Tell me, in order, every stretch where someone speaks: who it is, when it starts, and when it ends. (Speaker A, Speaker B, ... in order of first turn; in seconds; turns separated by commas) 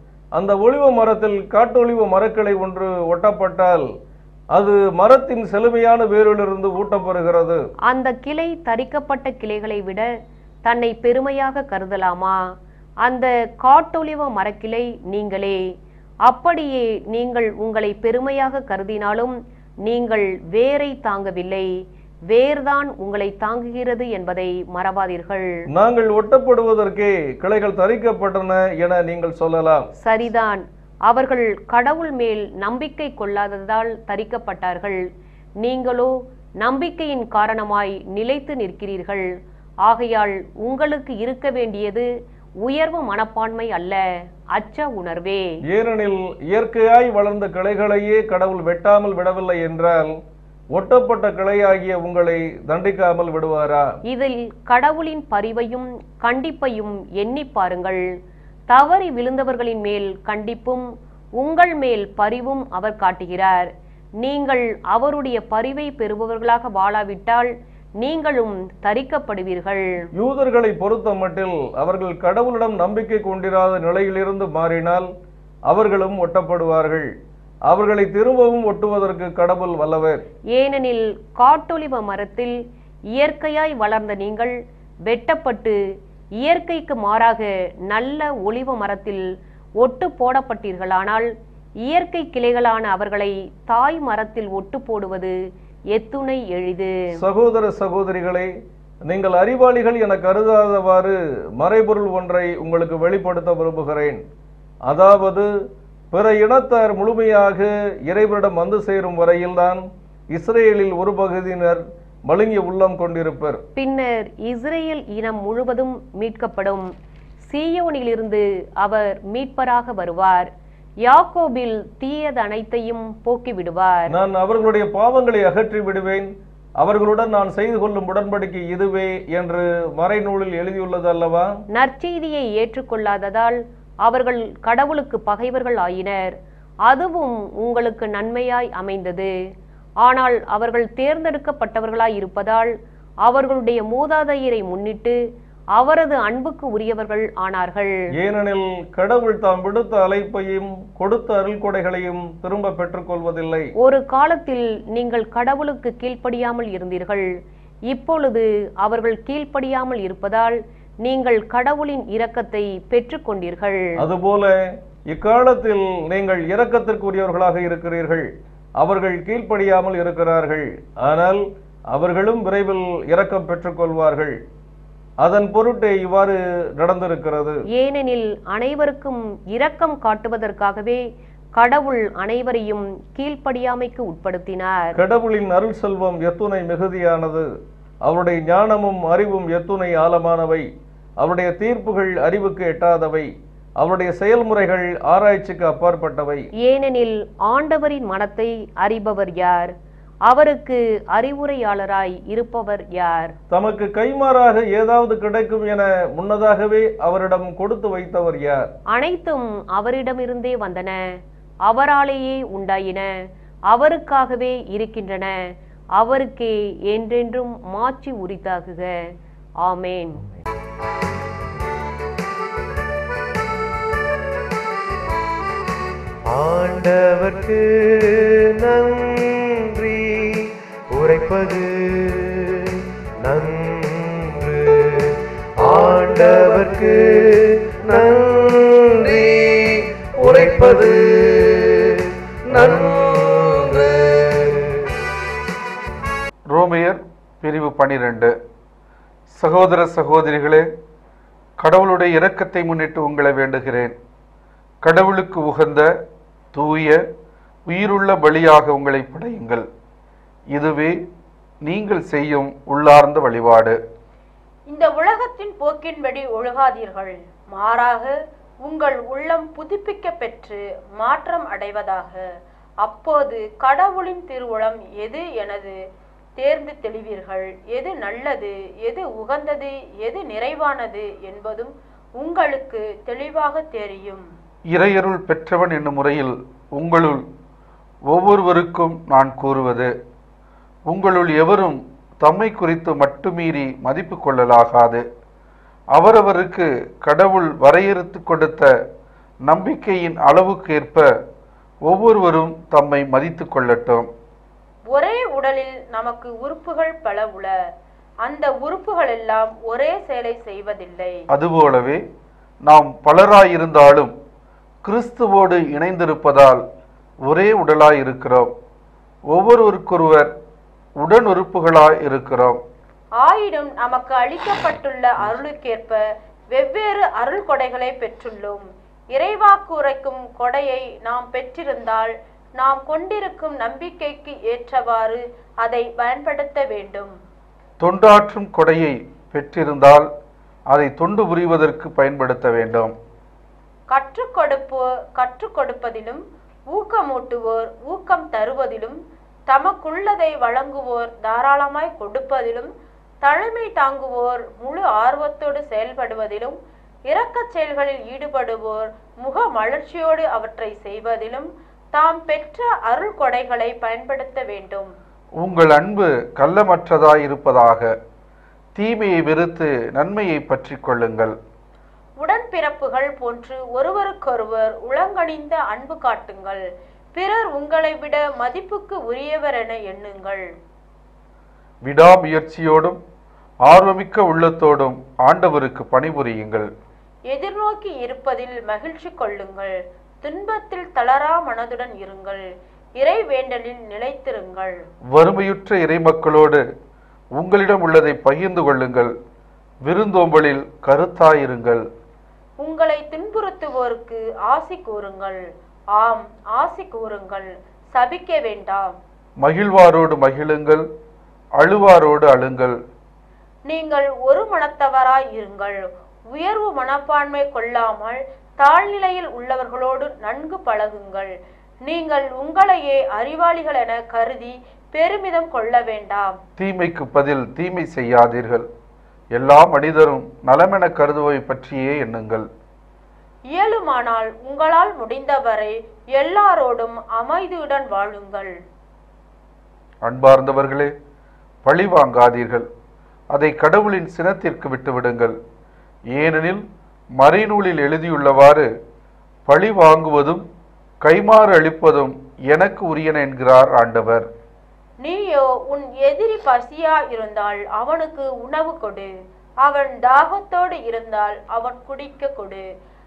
Speaker A: 0.3-3.8, Speaker A: 4.5-7.6, Speaker B: 7.8-10.1, Speaker B: 10.6-12.4, Speaker B: 13.0-15.6, Speaker B: 16.2-21.7, Speaker B: 22.3-25.6, Speaker A: 25.7-29.8, Speaker B: 30.0-35.0, Speaker B: 35.6-39.3, Speaker B: 39.8-42.1, Speaker B: 42.6-45.5, Speaker A: 45.7-50.1, Speaker A: 50.7-53.8, Speaker B: 54.1-58.1, Speaker B: 58.7-60.9, Speaker B: 61.4-63.7, Speaker B: 64.2-70.0, Speaker A: 70.2-75.0, Speaker A: 75.7-77.1, Speaker A: 77.7-80.2, Speaker B: 80.5-82.6, Speaker B: 83.1-85.8, Speaker B: 86.4-89.2, Speaker B: 89.8-91.3, Speaker B: 91.8-95.4, Speaker B: 95.9-97.2, Speaker A: 97.2-98.5, Speaker A: 99.1-104.2, Speaker A: 104.9-105.5, Speaker A: 106.1-109.8, Speaker A: 110.3-113.6, Speaker B: 113.8-116.9, Speaker B: 117.5-120.5, Speaker B: 121.0-124.1, Speaker A: 124.1-126.3, Speaker A: 126.8-131.5, Speaker B: 131.7-136.3, Speaker B: 136.8-139.3, Speaker B: 140.0-142.7, Speaker B: 143.2-145.2, Speaker B: 145.7-147.9, Speaker A: 148.2-153.7, Speaker B: 153.8-157.3, Speaker B: 157.9-163.9, Speaker A: 164.0-164.6, Speaker A: 165.1-168.3, Speaker A: 168.8-171.4, Speaker A: 171.9-174.3, Speaker A: 175.2-177.5, Speaker B: 177.7-181.0, Speaker B: 181.6-185.0, Speaker A: 185.0-187.4, Speaker A: 188.0-190.6, Speaker A: 191.2-193.3, Speaker A: 193.8-196.4, Speaker B: 196.6-199.7, Speaker B: 200.2-203.3, Speaker A: 203.5-208.7, Speaker B: 208.9-211.0, Speaker B: 211.6-213.1, Speaker B: 213.7-215.4, Speaker B: 215.9-218.9, Speaker B: 219.6-220.2, Speaker C: 226.2-244.8, Speaker D: 246.5-248.3, Speaker D: 249.3-250.7, Speaker D: 251.6-253.9, Speaker D: 254.8-255.9, Speaker D: 256.5-257.0, Speaker D: 257.7-259.6, Speaker D: 260.5-261.0, Speaker D: 261.6-263.8, Speaker E: 264.7-272.2, Speaker E: 272.8-275.8, Speaker E: 276.4-284.2, Speaker D: 284.7-287.2, Speaker D: 288.1-289.9, Speaker D: 290.9-295.0, Speaker D: 295.9-298.7, Speaker D: 299.5-301.1, Speaker D: 301.8-304.1, Speaker E: 304.9-307.5, Speaker E: 308.2-311.1, Speaker D: 311.3-312.0, Speaker D: 312.6-314.1, Speaker D: 314.8-316.6, Speaker D: 317.3-318.5, Speaker D: 319.3-320.3, Speaker D: 321.0-322.6, Speaker E: 323.2-326.0, Speaker E: 326.5-328.6, Speaker E: 329.1-337.1, Speaker D: 337.8-340.1, Speaker D: 340.7-342.9, Speaker E: 343.9-349.0, Speaker E: 349.5-352.7, Speaker E: 353.2-356.6, Speaker E: 357.1-364.9, Speaker D: 365.4-367.9, Speaker D: 368.8-371.3, Speaker E: 372.2-376.6, Speaker E: 377.1-380.4, Speaker D: 381.8-383.0, Speaker D: 383.7-386.7, Speaker E: 387.3-392.4, Speaker E: 393.0-394.7, Speaker D: 395.1-396.6, Speaker D: 397.4-399.1, Speaker D: 399.8-401.8, Speaker E: 402.6-405.4, Speaker E: 405.9-408.9, Speaker D: 409.4-410.8, Speaker D: 411.6-412.8, Speaker E: 413.7-421.3, Speaker E: 421.9-426.4, Speaker D: 426.6-428.6, Speaker D: 429.3-432.4, Speaker E: 433.5-438.5, Speaker D: 440.0-440.9, Speaker D: 441.6-442.6, Speaker D: 443.3-445.4, Speaker D: 446.1-446.6, Speaker D: 447.2-448.7, Speaker D: 449.5-450.4, Speaker D: 451.0-454.2, Speaker E: 455.0-459.1, Speaker E: 459.6-462.6